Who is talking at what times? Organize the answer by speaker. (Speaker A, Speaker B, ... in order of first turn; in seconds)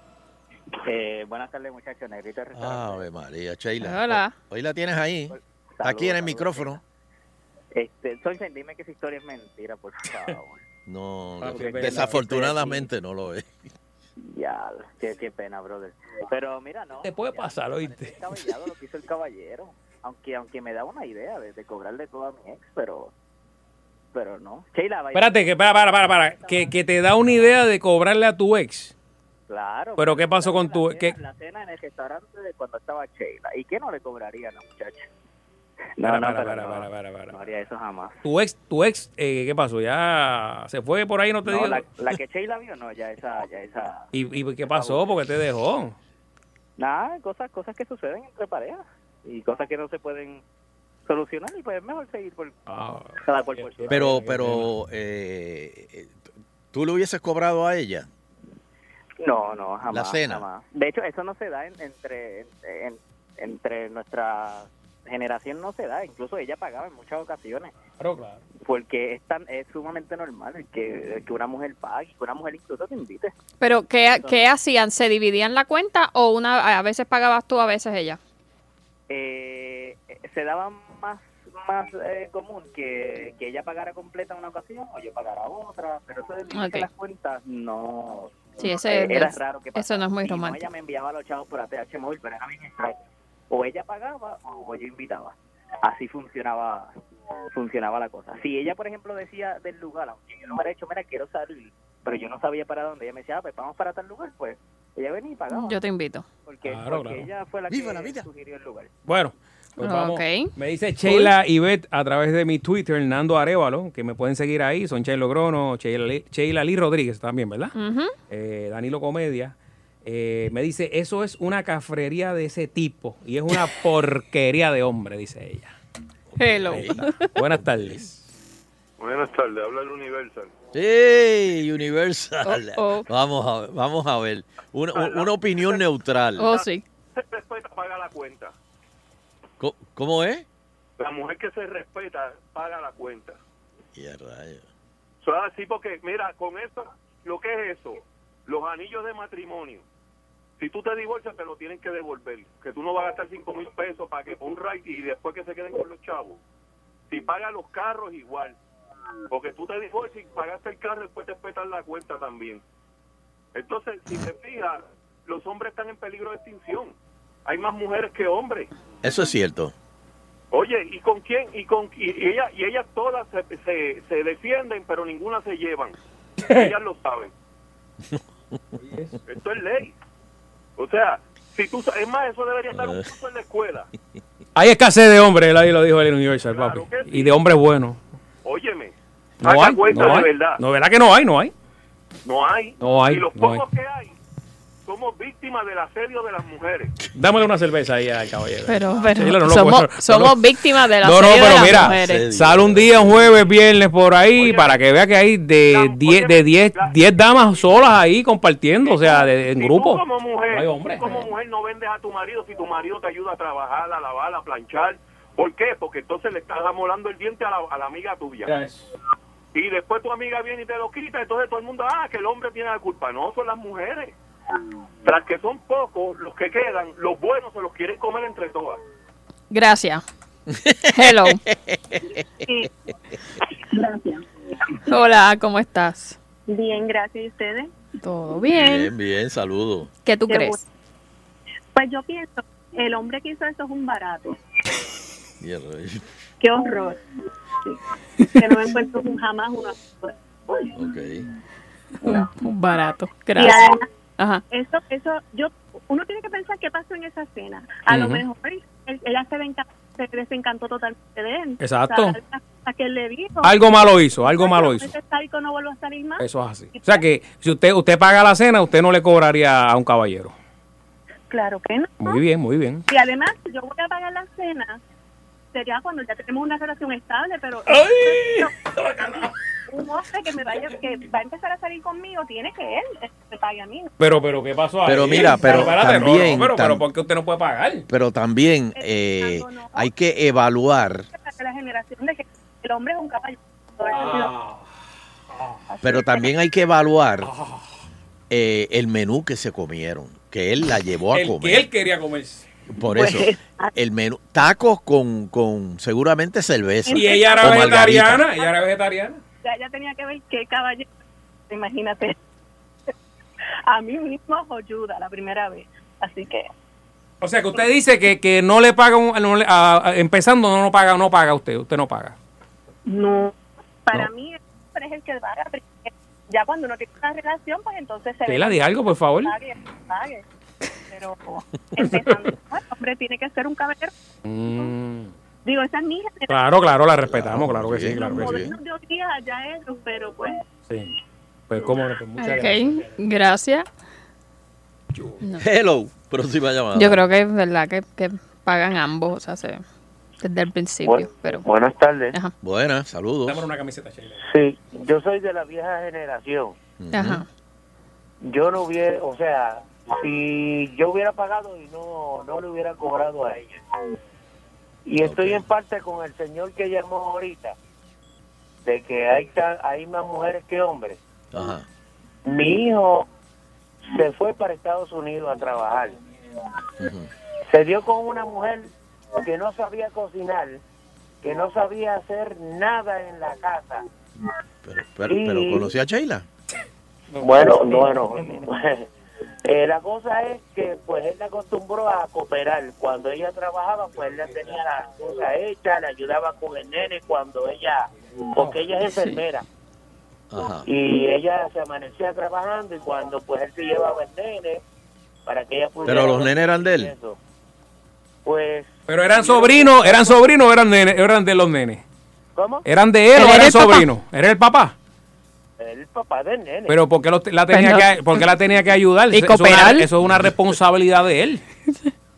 Speaker A: 0.8-3.0, 5.3-6.8, 7.7-10.6, 11.6-12.9, 14.2-23.1, 24.1-25.4, 26.1-26.7, 29.5-35.1, 36.0-38.2, 41.5-44.1, 44.6-45.0, 46.8-50.4, 51.0-54.1, 59.2-67.7, 68.6-73.3, 74.1-74.4, 79.1-93.0, 93.5-97.0, 97.5-105.8, 106.5-108.9
Speaker B: 2.5-6.8, 10.8-13.7, 53.9-56.2, 56.7-58.1, 59.9-60.4, 107.7-108.3, 126.3-128.1, 130.7-136.5, 139.6-140.5, 143.9-144.7, 169.0-169.7, 201.6-203.3, 230.5-232.2, 238.5-239.9, 245.4-246.0, 250.7-251.3, 284.8-286.8, 287.9-291.1, 295.8-297.3, 298.3-301.6, 302.7-308.2, 337.1-338.6, 345.4-347.0, 352.4-353.4, 356.8-357.2, 365.0-365.4, 371.3-371.7, 376.8-377.1, 384.6-386.3, 400.3-400.7, 405.9-406.9
Speaker C: 3.8-4.3, 73.6-78.2, 86.5-86.9, 88.6-90.6, 105.5-106.2, 109.8-110.5, 111.0-111.3, 117.8-118.1, 126.4-127.3, 132.4-133.1, 136.4-136.8, 198.7-202.2, 229.5-230.0, 230.9-231.4, 234.8-236.2, 238.0-238.9, 240.0-240.6, 252.0-254.4, 342.2-343.7, 346.7-349.6, 350.2-351.4, 356.9-357.2, 413.1-413.9, 417.5-418.2, 419.1-419.9
Speaker D: 11.4-12.2, 17.0-18.2, 25.1-28.9, 30.0-31.1, 36.0-37.4, 38.2-41.8, 44.1-46.0, 52.7-54.7, 68.0-68.4, 106.6-107.3, 109.0-117.7, 118.3-125.8, 126.7-128.2, 176.4-176.7, 178.8-179.2, 184.5-188.0, 189.4-191.5, 192.8-193.6, 197.1-200.4, 201.0-211.2, 218.4-218.8, 257.9-258.2, 261.6-262.2, 263.4-264.9, 266.2-270.3, 272.0-272.9, 277.7-279.3, 284.0-287.9, 293.9-294.6, 295.3-295.6, 297.2-297.6, 301.1-302.5, 306.9-309.2, 317.2-322.2, 328.2-329.3, 331.8-332.3, 334.2-335.1, 336.3-338.4, 340.7-340.9, 341.5-342.9, 344.9-345.2, 353.3-354.2, 387.1-388.4, 398.4-398.6, 408.9-411.8, 412.6-414.8, 416.7-421.4
Speaker E: 129.0-130.5, 134.9-135.8, 136.4-138.5, 141.0-143.4, 145.2-149.8, 150.6-156.4, 157.1-158.6, 159.3-162.6, 163.5-166.9, 167.4-168.7, 170.5-176.0, 176.5-177.3, 179.3-179.9, 180.8-183.9, 186.5-187.3, 188.4-190.6, 192.2-194.1, 194.8-196.9, 204.3-204.8, 205.7-206.9, 208.8-218.5, 219.5-224.1, 225.0-228.8
Speaker F: 233.6-234.2, 236.5-237.7, 240.3-240.6, 241.7-244.4, 246.4-247.0, 247.6-250.8, 253.3-253.8, 254.5-263.5, 264.2-267.0, 271.3-272.2, 272.9-274.8, 275.5-283.9, 288.8-289.9, 291.1-294.3, 295.7-296.3, 302.9-303.7, 306.8-308.5, 309.4-310.9, 311.5-312.2, 313.7-316.5, 322.9-323.3, 323.9-330.2, 330.9-333.9, 335.4-336.3, 337.9-340.4
Speaker G: 350.8-352.1, 354.2-356.6, 358.2-363.6, 364.8-367.5, 368.6-371.0, 372.2-373.1, 373.9-376.0, 377.5-380.6, 381.2-383.8, 385.1-385.7, 387.2-388.9, 389.4-399.4, 400.6-404.6, 405.2-407.2, 408.2-410.2, 412.4-412.6, 415.6-416.7